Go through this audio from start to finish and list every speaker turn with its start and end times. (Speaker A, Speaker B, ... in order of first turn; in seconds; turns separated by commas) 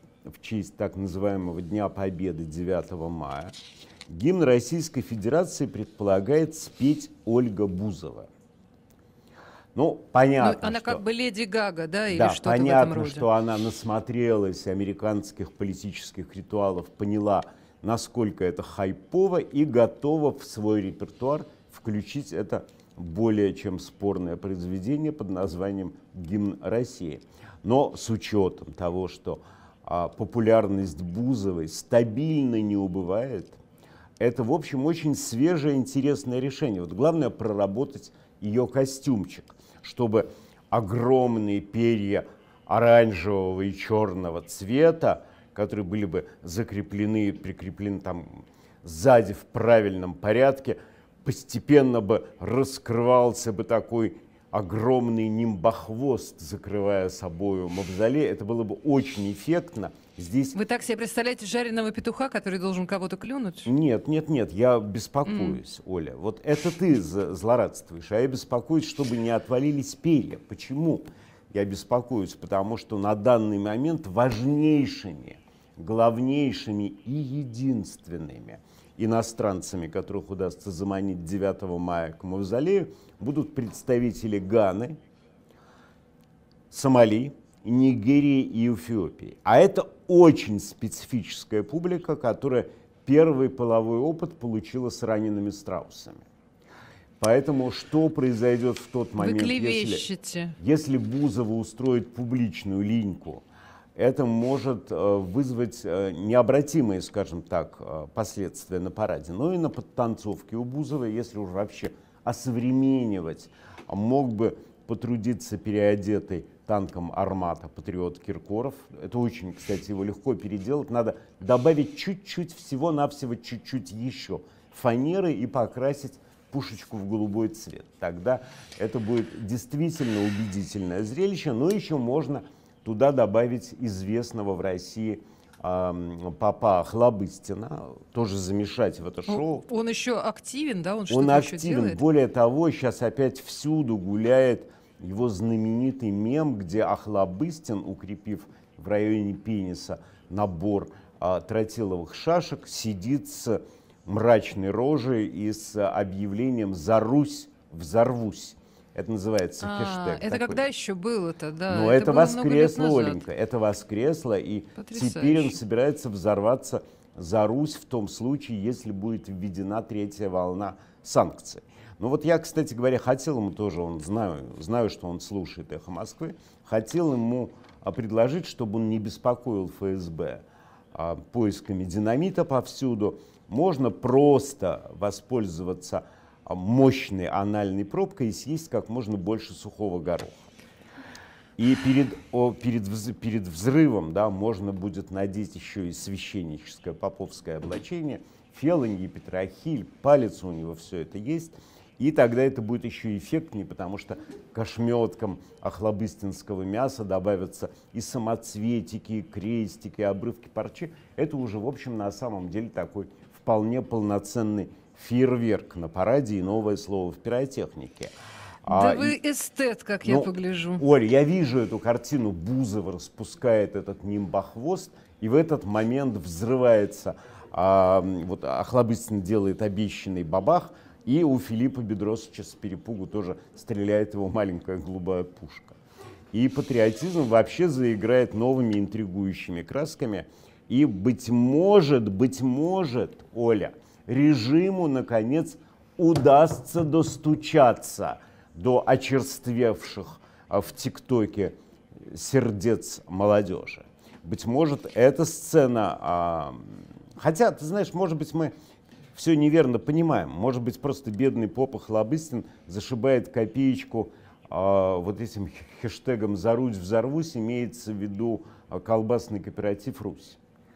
Speaker A: 0.2-3.5, Speaker A: 4.1-8.3, Speaker A: 9.7-11.0, Speaker B: 10.4-13.3, Speaker A: 12.1-33.6, Speaker A: 34.2-60.6, Speaker B: 60.5-63.7, Speaker A: 63.7-85.0, Speaker B: 65.2-65.6, Speaker A: 86.7-96.2, Speaker A: 97.2-103.4, Speaker B: 99.2-100.6, Speaker A: 104.0-139.7, Speaker B: 139.3-142.0, Speaker A: 141.1-160.7, Speaker B: 159.6-163.2, Speaker A: 161.7-190.4, Speaker B: 164.8-165.6, Speaker A: 191.6-218.1, Speaker A: 218.6-219.2, Speaker B: 218.7-220.8, Speaker A: 220.1-235.8, Speaker A: 236.3-251.5, Speaker A: 252.1-258.5, Speaker A: 259.1-270.4